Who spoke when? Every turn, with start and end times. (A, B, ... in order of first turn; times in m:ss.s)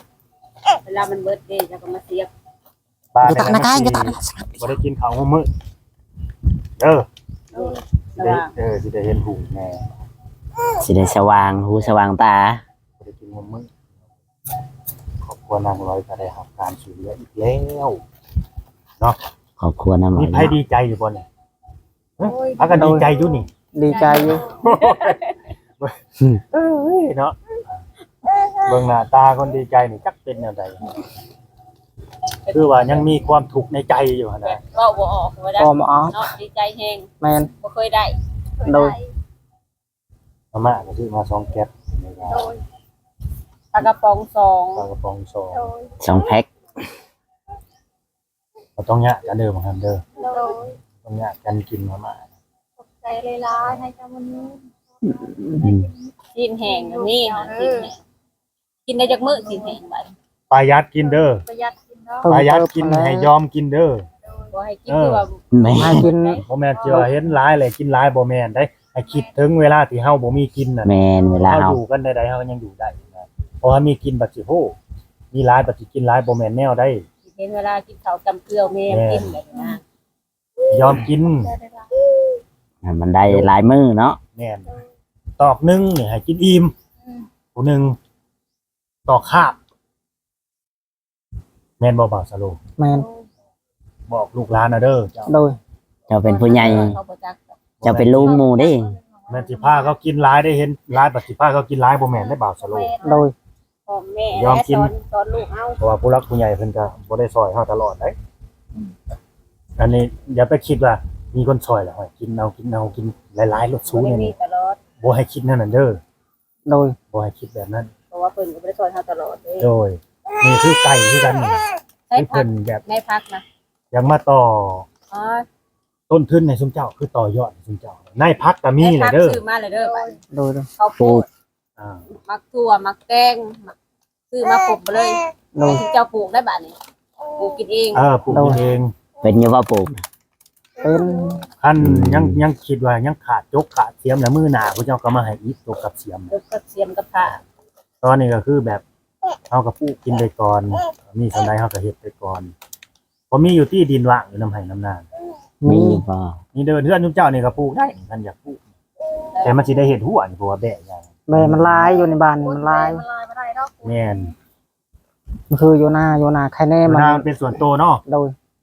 0:00.8-0:02.3 A
0:03.1-0:05.5 B
0:03.2-0:04.8 C
0:06.8-0:07.1 B
0:07.5-0:08.5 A
0:08.2-0:09.8 B
0:10.8-0:12.6 D
0:13.0-0:13.7 B
0:15.2-0:18.0 B
0:19.6-0:20.6 D
0:20.1-0:21.2 B
0:22.2-0:23.5 B
0:22.2-0:24.6 E
0:22.7-0:23.1 C
0:23.7-0:24.4 C
0:24.5-0:25.2 B
0:24.6-0:25.4 A
0:25.8-0:27.4 B
0:28.6-0:30.8 B
0:32.5-0:33.1 A
0:32.5-0:34.6 B
0:34.4-0:37.1 A
0:35.6-0:36.2 C
0:37.2-0:37.5 C
0:37.6-0:38.2 A
0:38.6-0:39.1 E
0:38.6-0:38.9 C
0:40.5-0:42.5 B
0:42.3-0:42.6 E
0:43.7-0:44.9 A
0:44.8-0:45.7 B
0:45.5-0:46.0 E
0:46.0-0:46.5 D
0:48.8-0:50.1 B
0:50.2-0:50.7 E
0:51.0-0:52.2 B
0:52.8-0:55.9 E
0:55.5-0:55.9 D
0:56.3-0:58.0 A
0:56.6-0:57.9 E
0:58.9-1:00.1 A
0:59.4-0:59.7 E
1:00.5-1:01.4 B
1:01.1-1:02.3 E
1:02.2-1:03.3 C
1:02.3-1:04.1 B
1:04.2-1:04.5 E
1:04.5-1:06.5 A
1:04.9-1:05.2 B
1:05.5-1:06.1 D
1:05.8-1:07.1 C
1:06.5-1:14.8 B
1:06.8-1:07.1 E
1:09.1-1:09.3 E
1:10.8-1:11.8 D
1:15.3-1:17.1 B
1:17.2-1:19.8 A
1:18.9-1:19.3 B
1:20.7-1:21.5 B
1:21.4-1:21.9 E
1:22.8-1:24.2 D
1:23.2-1:23.5 B
1:24.3-1:24.7 B
1:25.4-1:26.7 B
1:27.5-1:28.0 B
1:29.1-1:29.6 B
1:31.8-1:32.6 B
1:32.8-1:33.1 C
1:34.1-1:35.3 B
1:35.3-1:35.6 C
1:36.1-1:37.0 D
1:36.2-1:37.6 A
1:37.8-1:38.4 B
1:37.8-1:38.9 D
1:38.1-1:39.9 E
1:39.3-1:42.9 B
1:42.1-1:43.2 E
1:43.0-1:43.3 C
1:43.8-1:45.8 A
1:44.3-1:44.9 B
1:45.8-1:48.2 B
1:49.8-1:54.3 B
1:53.9-1:54.8 A
1:55.0-1:56.0 B
1:56.7-1:57.0 C
1:57.1-1:57.9 B
1:58.1-1:59.7 A
1:59.6-2:02.8 B
2:02.1-2:03.4 A
2:03.9-2:04.9 B
2:05.1-2:05.4 A
2:06.1-2:09.4 B
2:08.8-2:10.2 A
2:09.7-2:10.2 E
2:10.3-2:10.7 C
2:10.8-2:11.3 A
2:11.0-2:11.2 D
2:11.8-2:12.1 B
2:12.1-2:13.7 A
2:14.3-2:16.8 A
2:15.5-2:15.8 C
2:17.3-2:18.1 A
2:17.9-2:18.9 B
2:18.3-2:18.6 C
2:19.2-2:20.0 D
2:20.8-2:21.4 C
2:21.6-2:26.3 B
2:21.8-2:22.4 D
2:26.3-2:27.4 A
2:28.0-2:28.8 B
2:29.5-2:32.5 B
2:33.3-2:35.1 B
2:35.6-2:36.0 C
2:35.7-2:36.4 D
2:36.5-2:38.6 B
2:39.4-2:42.0 B
2:41.3-2:43.0 C
2:41.9-2:44.3 E
2:43.8-2:44.3 B
2:45.5-2:47.3 C
2:46.8-2:48.0 B
2:48.1-2:48.3 C